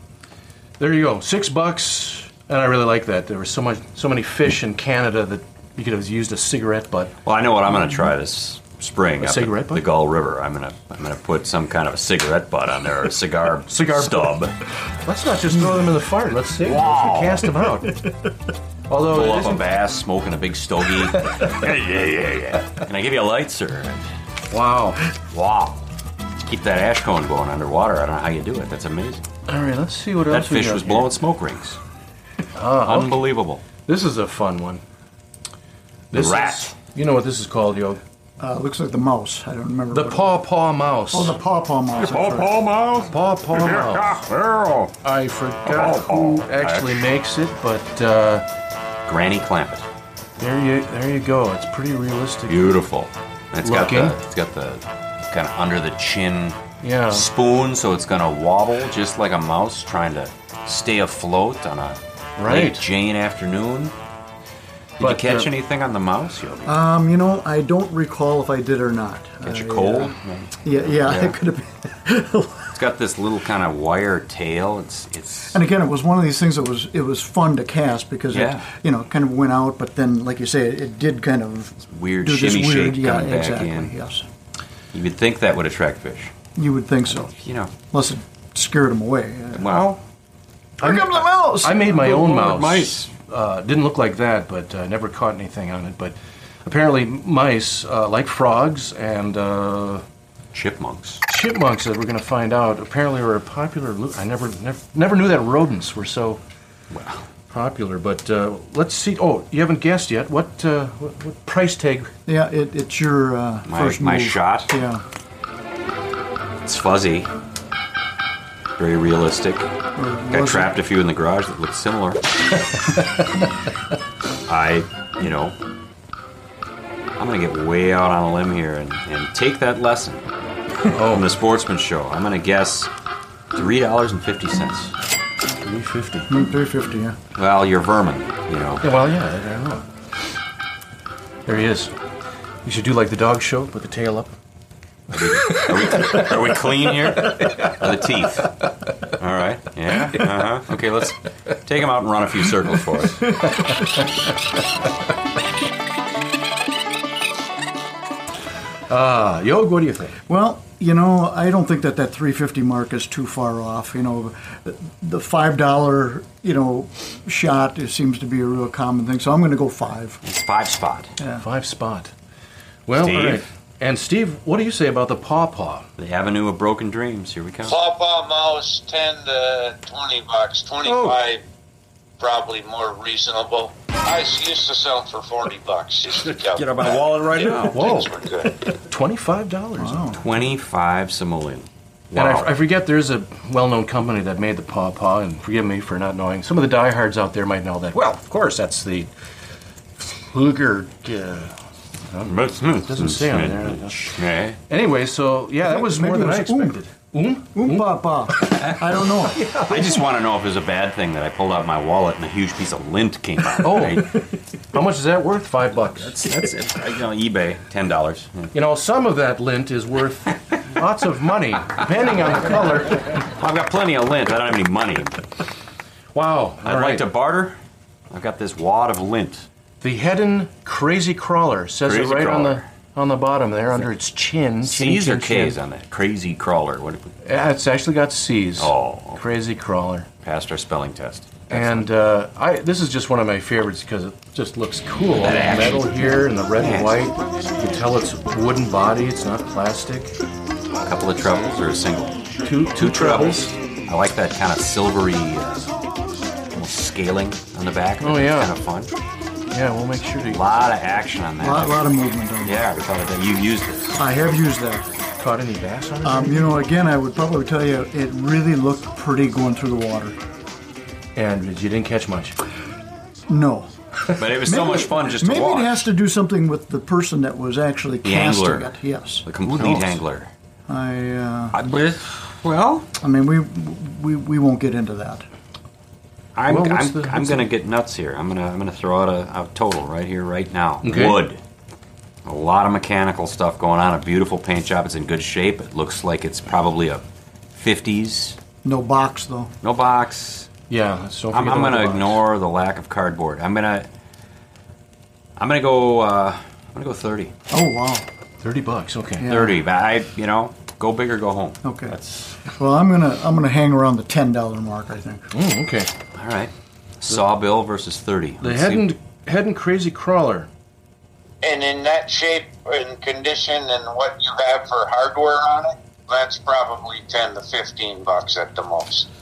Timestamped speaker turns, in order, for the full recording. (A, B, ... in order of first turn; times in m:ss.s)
0:00.8-0:07.1 A
0:07.2-0:14.5 B
0:09.2-0:09.9 A
0:13.7-0:14.4 A
0:15.0-0:18.2 A
0:16.6-0:17.5 B
0:18.9-0:19.7 A
0:19.1-0:24.0 B
0:21.2-0:21.5 A
0:24.5-0:25.1 A
0:25.3-0:25.8 B
0:26.4-0:29.2 B
0:29.5-0:31.1 A
0:30.3-0:31.8 B
0:32.5-0:33.2 A
0:32.8-0:33.6 B
0:33.8-0:34.8 A
0:36.1-0:38.0 A
0:36.1-0:36.8 B
0:38.4-0:40.4 C
0:39.9-0:41.4 A
0:41.1-0:42.6 C
0:42.0-0:44.9 B
0:43.1-0:44.2 A
0:45.0-0:48.4 A
0:45.6-0:47.0 B
0:49.0-0:49.8 B
0:50.4-0:52.8 A
0:52.5-1:03.9 B
0:53.6-0:54.2 A
0:56.8-0:57.2 A
1:02.4-1:02.8 A
1:05.0-1:06.7 B
1:05.0-1:05.5 A
1:06.6-1:12.8 C
1:09.4-1:11.4 B
1:12.7-1:15.6 B
1:15.5-1:24.2 C
1:18.3-1:18.7 B
1:21.8-1:23.9 B
1:24.9-1:26.3 B
1:26.6-1:27.3 C
1:27.1-1:27.7 B
1:27.9-1:29.8 C
1:29.5-1:30.0 B
1:30.8-1:31.9 C
1:30.8-1:40.0 A
1:31.8-1:33.1 B
1:40.5-1:41.2 B
1:41.3-1:46.4 A
1:46.9-1:47.2 B
1:47.5-1:52.1 A
1:52.3-1:55.0 C
1:53.7-1:54.7 B
1:56.6-1:57.3 B
1:58.8-1:59.7 B
2:00.0-2:00.7 C
2:00.3-2:02.2 B
2:04.5-2:05.6 B
2:07.2-2:10.2 B
2:10.9-2:11.3 A
2:11.1-2:12.9 B
2:13.5-2:14.9 B
2:15.6-2:16.3 A
2:16.3-2:17.2 C
2:17.3-2:18.8 B
2:18.8-2:19.8 A
2:21.4-2:21.9 A
2:22.6-2:24.3 A
2:25.1-2:28.6 B
2:25.4-2:27.7 A
2:29.1-2:33.3 B
2:38.9-2:40.2 A
2:40.3-2:50.2 C
2:50.2-2:51.1 B
2:51.2-2:51.4 C
2:51.4-2:52.1 A
2:52.9-2:55.9 A
2:53.0-2:53.4 B
2:56.0-2:57.8 B
2:57.6-3:01.4 D
3:00.8-3:01.2 A
3:02.2-3:08.6 D
3:06.2-3:07.9 B
3:07.7-3:08.1 A
3:08.7-3:10.2 A
3:09.8-3:10.2 C
3:10.2-3:12.5 B
3:12.1-3:19.1 A
3:20.0-3:21.5 A
3:22.1-3:24.2 A
3:22.3-3:24.6 B
3:24.7-3:30.0 A
3:25.6-3:26.8 C
3:27.5-3:29.4 C
3:29.6-3:34.3 B
3:33.6-3:36.2 A
3:35.9-3:38.5 B
3:38.5-3:43.1 A
3:43.3-3:45.2 B
3:46.1-3:47.1 A
3:46.6-3:47.6 B
3:48.1-3:49.4 B
3:49.8-3:55.6 A
3:51.8-3:52.7 B
3:54.6-3:57.1 B
3:57.2-4:00.1 A
3:58.6-3:59.2 B
4:00.2-4:01.9 B
4:01.5-4:10.1 A
4:05.1-4:07.0 B
4:10.7-4:15.7 B
4:12.4-4:13.5 A
4:16.5-4:18.9 B
4:18.0-4:18.5 A
4:19.5-4:20.4 A
4:20.3-4:21.9 B
4:21.4-4:22.6 C
4:22.4-4:24.0 B
4:24.0-4:24.8 C
4:25.2-4:26.5 A
4:26.0-4:30.2 C
4:31.2-4:32.4 A
4:33.3-4:33.7 C
4:34.2-4:35.8 B
4:34.4-4:39.3 C
4:38.0-4:38.7 B
4:39.2-4:40.3 B
4:39.5-4:40.0 A
4:40.7-4:41.6 C
4:41.5-4:42.9 B
4:43.0-4:45.2 C
4:46.3-4:51.4 B
4:46.4-4:47.5 A
4:50.8-4:51.3 A
4:52.2-4:58.4 B
4:58.6-4:59.5 C
4:59.6-5:00.5 B
5:00.7-5:02.2 A
5:01.3-5:03.9 B
5:05.4-5:07.3 B
5:07.5-5:08.0 C
5:08.4-5:09.2 A
5:09.2-5:09.6 C
5:09.2-5:12.4 B
5:11.6-5:15.3 C
5:15.3-5:15.9 A
5:16.1-5:18.9 B
5:18.4-5:20.5 A
5:21.4-5:29.1 D